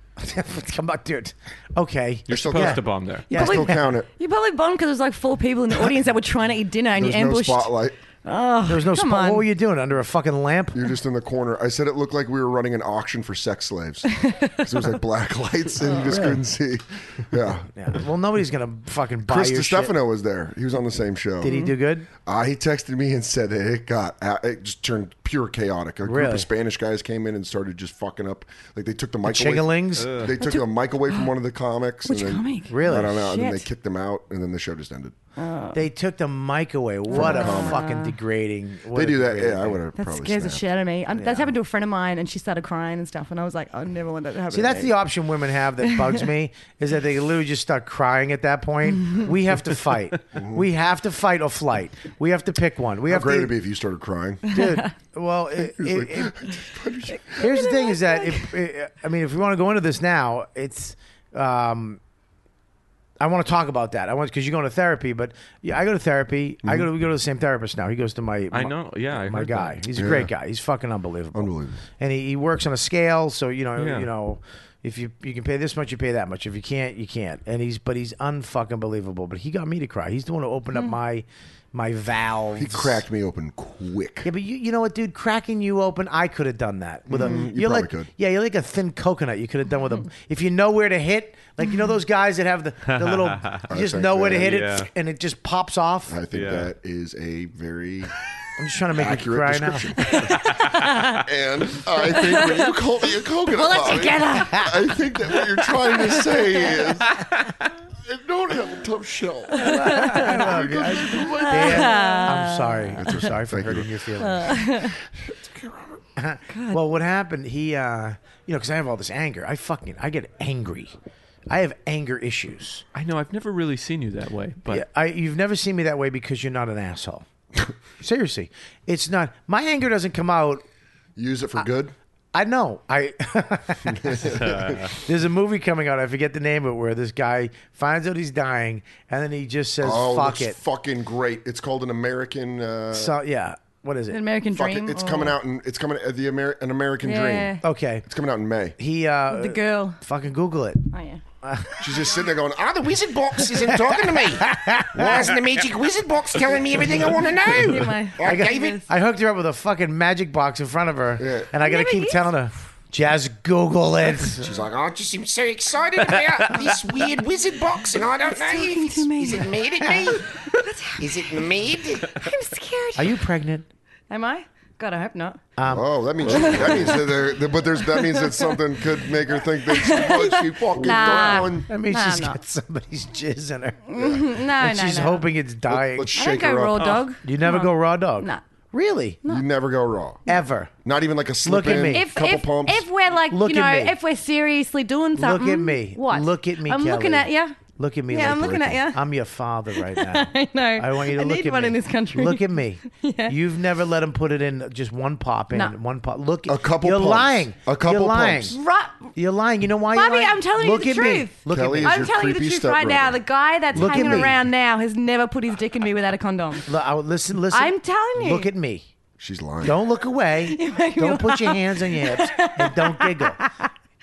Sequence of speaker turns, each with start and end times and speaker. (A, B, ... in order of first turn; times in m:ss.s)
0:00.2-0:03.8 A
0:02.3-0:03.3 B
0:02.3-0:04.1 C
0:03.3-0:07.7 D
0:06.9-0:08.0 C
0:08.2-0:09.5 D
0:08.7-0:10.8 A
0:10.7-0:17.7 C
0:14.2-0:14.7 D
0:15.8-0:16.2 D
0:16.0-0:16.4 A
0:17.7-0:19.9 A
0:19.3-0:21.5 C
0:21.4-0:22.1 A
0:21.4-0:21.7 D
0:22.2-0:35.1 C
0:26.0-0:26.5 A
0:29.2-0:30.2 A
0:30.0-0:30.4 B
0:30.4-0:31.3 D
0:32.0-0:33.6 D
0:32.7-0:33.2 A
0:35.4-0:35.8 D
0:35.7-0:39.8 A
0:37.1-0:38.2 D
0:37.1-0:37.8 C
0:38.9-0:40.6 C
0:40.0-0:45.0 D
0:41.1-0:41.5 A
0:44.5-0:53.5 A
0:50.3-0:50.7 C
0:53.1-0:54.4 C
0:54.5-0:56.4 A
0:54.5-0:54.8 D
0:55.6-0:57.4 C
0:57.3-0:58.5 D
0:57.4-1:02.0 A
1:03.2-1:23.0 A
1:08.5-1:09.8 B
1:09.9-1:10.3 C
1:11.3-1:11.8 C
1:13.8-1:14.1 B
1:22.6-1:24.3 C
1:24.2-1:36.2 A
1:27.1-1:28.1 C
1:32.9-1:33.6 B
1:33.7-1:34.6 C
1:34.4-1:34.9 B
1:36.1-1:38.1 C
1:36.3-1:36.7 B
1:38.6-1:40.0 A
1:38.9-1:47.2 C
1:40.1-1:41.2 D
1:42.0-1:42.7 D
1:43.5-1:46.9 D
1:48.0-1:52.2 C
1:49.6-1:50.4 D
1:49.6-1:54.6 A
1:51.1-1:53.0 D
1:52.9-1:56.0 C
1:54.2-1:55.0 D
1:56.2-2:00.9 A
1:56.5-1:56.8 D
2:01.5-2:02.8 A
2:02.9-2:04.8 B
2:04.7-2:07.2 A
2:08.0-2:10.6 A
2:11.2-2:11.9 C
2:12.3-2:14.3 A
2:13.8-2:15.0 C
2:14.2-2:14.9 B
2:15.0-2:20.6 A
2:19.8-2:23.2 C
2:22.9-2:24.2 A
2:24.1-2:25.4 D
2:24.5-2:28.8 C
2:27.0-2:27.6 D
2:27.6-2:28.0 A
2:28.8-2:30.9 A
2:29.3-2:30.0 D
2:30.9-2:31.2 D
2:31.4-2:31.9 A
2:31.8-2:32.7 C
2:32.6-2:38.8 E
2:34.4-2:35.1 A
2:37.4-2:38.8 D
2:38.2-2:44.5 A
2:41.2-2:41.5 C
2:41.6-2:42.3 D
2:44.4-2:50.3 E
2:48.2-2:51.5 D
2:51.0-2:52.2 E
2:52.1-2:53.2 D
2:53.0-2:53.7 A
2:54.1-2:55.4 D
2:55.6-2:56.4 A
2:55.7-3:01.7 C
2:56.3-2:57.1 D
2:57.8-2:58.6 D
2:59.6-3:02.4 D
3:00.9-3:03.8 A
3:03.9-3:05.3 D
3:04.0-3:04.4 C
3:04.6-3:06.1 A
3:05.7-3:07.0 C
3:06.1-3:08.4 D
3:06.8-3:07.0 B
3:07.2-3:09.2 A
3:09.2-3:10.2 C
3:10.3-3:10.7 A
3:10.8-3:12.9 C
3:11.4-3:12.1 A
3:11.6-3:17.6 D
3:13.3-3:14.0 A
3:15.2-3:28.6 A
3:18.1-3:19.0 D
3:18.2-3:18.8 C
3:19.8-3:23.3 D
3:26.5-3:28.6 C
3:28.5-3:29.1 D
3:29.1-3:32.0 A
3:29.9-3:36.7 D
3:31.5-3:34.4 C
3:33.7-3:34.4 A
3:36.6-3:38.9 A
3:37.5-3:38.5 D
3:39.2-3:39.8 C
3:39.6-3:43.4 A
3:40.4-3:43.7 D